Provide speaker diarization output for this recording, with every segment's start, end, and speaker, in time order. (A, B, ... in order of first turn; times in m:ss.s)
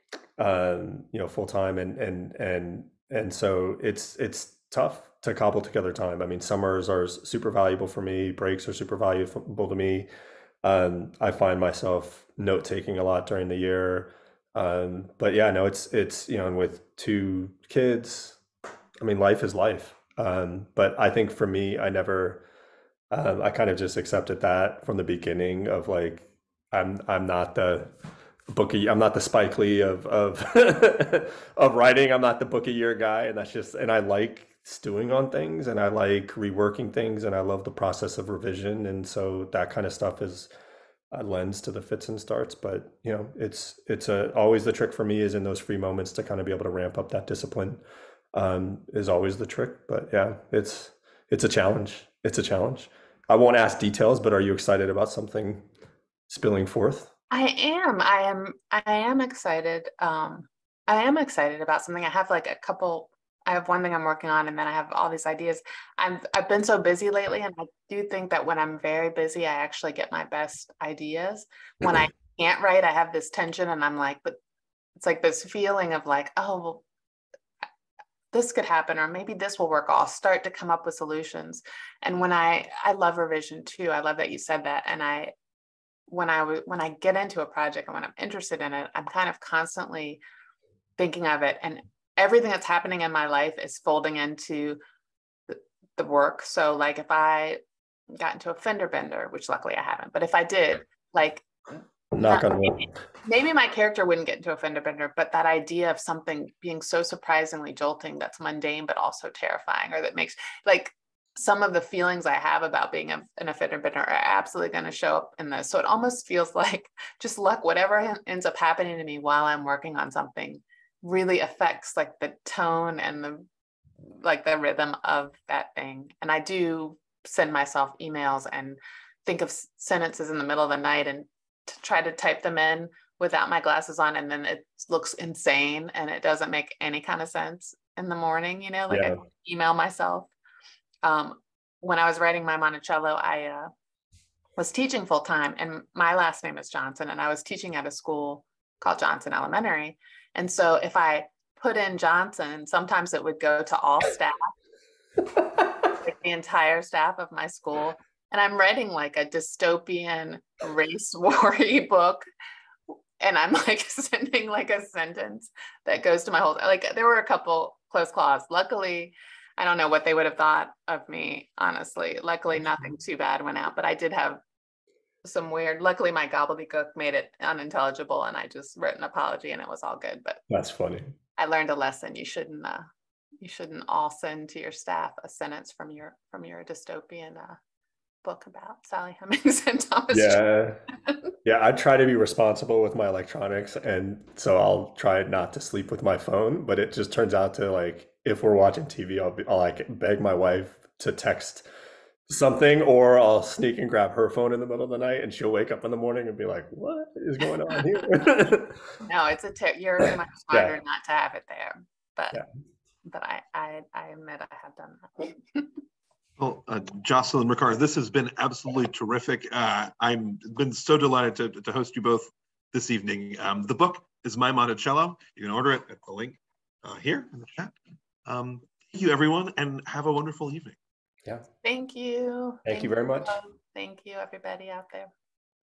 0:00.4-0:10.1 A
0:10.6-0:18.4 A
0:19.0-0:22.4 A
0:23.1-0:27.9 A
0:28.5-0:40.5 A
0:41.1-0:47.8 A
0:48.3-0:55.7 A
0:56.3-0:57.1 A
0:57.3-1:14.4 B
1:15.0-1:16.8 B
1:18.3-1:25.3 B
1:26.1-1:30.2 B
1:31.0-1:34.8 B
1:35.5-1:37.6 B
1:38.2-2:03.5 B
1:42.1-1:42.9 A
2:04.1-2:20.3 B
2:18.9-2:19.2 A
2:21.0-2:23.7 B
2:24.6-2:34.5 B
2:36.0-2:42.2 B
2:43.2-2:54.4 B
2:55.2-3:00.4 B
3:00.5-3:01.2 A
3:01.4-3:02.9 B
3:03.4-3:07.6 B
3:08.2-3:10.4 B
3:10.1-3:10.8 A
3:11.4-3:21.7 A
3:22.3-3:28.8 A
3:29.0-3:32.4 B
3:33.1-3:35.7 B
3:36.4-3:47.7 C
3:48.3-3:50.8 C
3:51.6-3:55.1 B
3:52.6-3:53.4 A